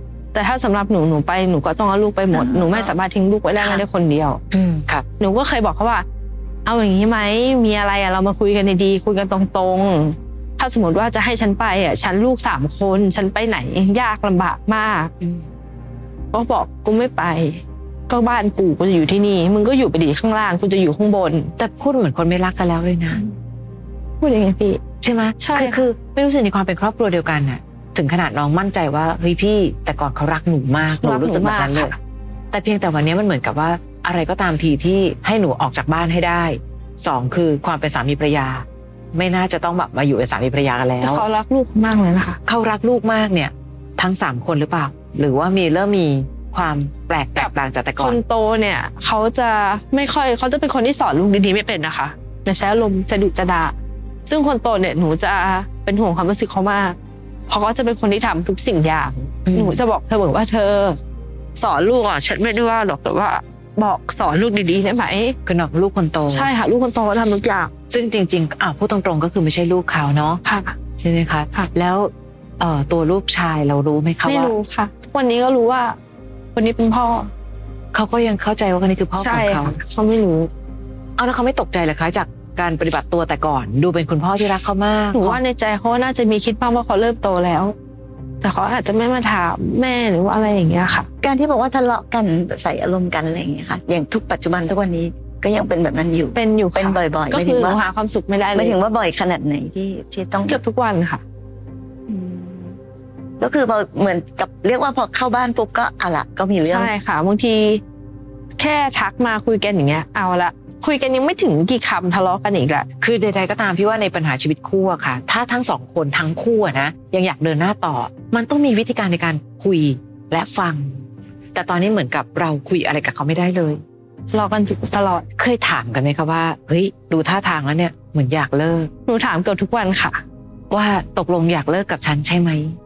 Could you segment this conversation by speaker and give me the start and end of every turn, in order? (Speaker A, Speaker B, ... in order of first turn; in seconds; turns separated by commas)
Speaker A: 0.3-4.4, Speaker B: 2.3-3.0, Speaker B: 3.6-3.8, Speaker C: 4.5-5.0, Speaker A: 5.2-6.0, Speaker A: 6.7-15.1, Speaker C: 15.2-15.5, Speaker A: 16.3-21.5, Speaker C: 21.6-23.2, Speaker A: 24.2-24.8, Speaker C: 25.0-31.9, Speaker A: 25.4-25.8, Speaker A: 30.9-32.0, Speaker C: 32.5-41.2, Speaker A: 41.0-42.4, Speaker C: 42.5-48.2, Speaker A: 47.4-53.7, Speaker A: 54.3-57.0, Speaker A: 57.5-61.0, Speaker C: 59.5-59.8, Speaker A: 61.6-65.4, Speaker C: 65.5-66.5, Speaker A: 66.3-67.7, Speaker C: 67.9-70.4, Speaker A: 70.5-70.8, Speaker C: 71.0-74.5, Speaker A: 74.2-76.0, Speaker A: 76.5-77.3, Speaker C: 77.9-79.8, Speaker A: 79.2-80.5, Speaker C: 81.2-85.4, Speaker A: 85.1-87.8, Speaker A: 88.4-91.1, Speaker B: 91.2-97.8, Speaker A: 96.3-98.8, Speaker B: 98.5-100.6, Speaker A: 100.5-101.2, Speaker B: 102.1-102.8, Speaker B: 103.4-106.9, Speaker A: 106.6-107.8, Speaker A: 108.6-112.9, Speaker C: 113.0-121.0, Speaker C: 121.5-123.8, Speaker A: 124.3-125.2, Speaker C: 125.4-128.9, Speaker A: 129.1-130.2, Speaker C: 130.7-132.8